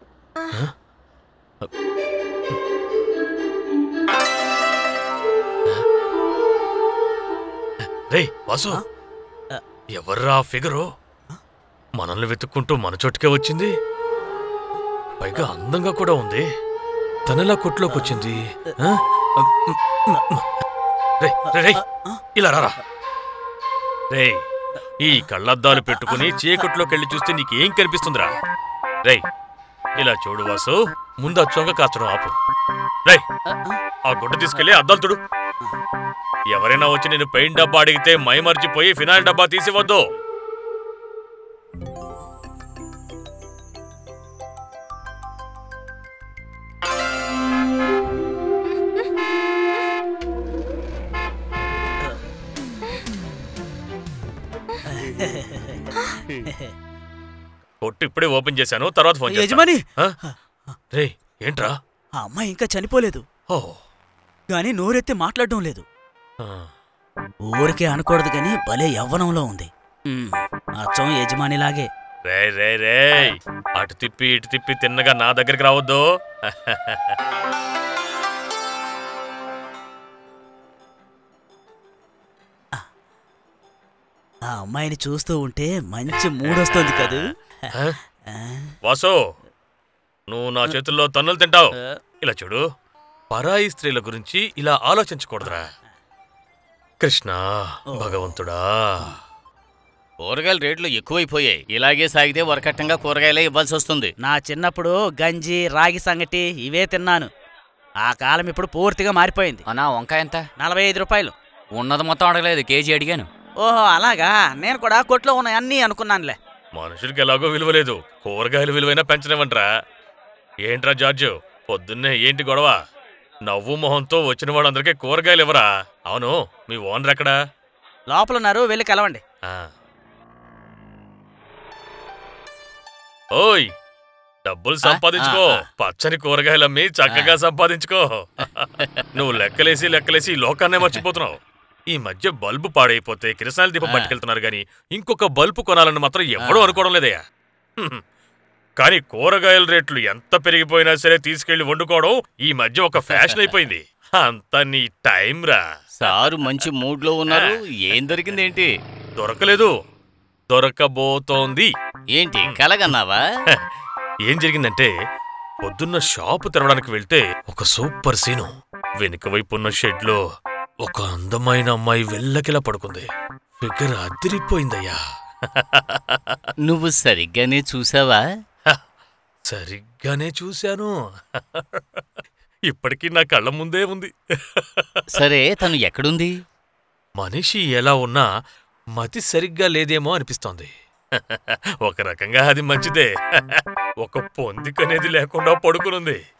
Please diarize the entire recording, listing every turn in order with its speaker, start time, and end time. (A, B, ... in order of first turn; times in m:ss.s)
0:07.8-0:08.8 A
0:09.9-0:10.9 A
0:12.0-0:13.8 A
0:15.2-0:16.5 A
0:17.3-0:20.4 A
0:17.9-0:18.7 B
0:21.2-0:21.8 A
0:21.5-0:22.2 B
0:22.4-0:22.8 A
0:24.1-0:24.5 A
0:25.0-0:28.3 A
0:25.9-0:26.2 B
0:30.0-0:32.3 A
0:33.5-0:33.8 B
0:34.1-0:35.2 A
0:36.5-0:40.1 A
0:54.8-0:55.9 B
0:56.4-0:56.7 B
0:57.8-1:00.2 A
0:59.3-1:00.8 B
1:00.9-1:01.8 A
1:02.2-1:03.2 B
1:03.5-1:03.8 A
1:04.5-1:05.8 B
1:06.4-1:06.7 A
1:07.4-1:11.9 B
1:12.3-1:17.2 A
1:24.4-1:28.7 B
1:26.4-1:27.2 A
1:27.7-1:28.0 A
1:28.8-1:29.2 A
1:30.3-1:32.6 A
1:31.7-1:32.0 B
1:33.3-1:35.7 A
1:37.0-1:39.1 A
1:37.9-1:38.3 B
1:40.2-1:44.1 C
1:44.2-1:47.3 B
1:48.0-1:49.6 B
1:49.7-1:50.4 D
1:50.6-1:51.3 B
1:51.7-1:53.3 D
1:53.6-1:56.4 B
1:56.7-1:59.7 A
2:00.6-2:02.8 A
2:03.4-2:07.3 A
2:08.1-2:09.2 B
2:09.4-2:09.7 A
2:13.3-2:13.7 A
2:14.4-2:21.4 A
2:14.8-2:15.6 C
2:17.1-2:17.4 C
2:18.4-2:19.1 C
2:21.9-2:27.2 A
2:23.8-2:24.2 C
2:26.4-2:26.8 C
2:28.8-2:36.6 A
2:33.0-2:33.6 C
2:36.0-2:38.7 C
2:37.3-2:37.6 A
2:39.2-2:39.7 A
2:40.5-2:41.7 A
2:42.1-2:43.2 C
2:44.2-2:44.9 A
2:45.6-2:50.2 A
2:50.8-2:53.1 A
2:53.6-2:56.4 A
2:56.6-2:58.2 C
2:59.4-3:02.0 A
3:02.7-3:05.2 A
3:05.1-3:06.3 C
3:07.2-3:08.3 A
3:08.9-3:16.2 A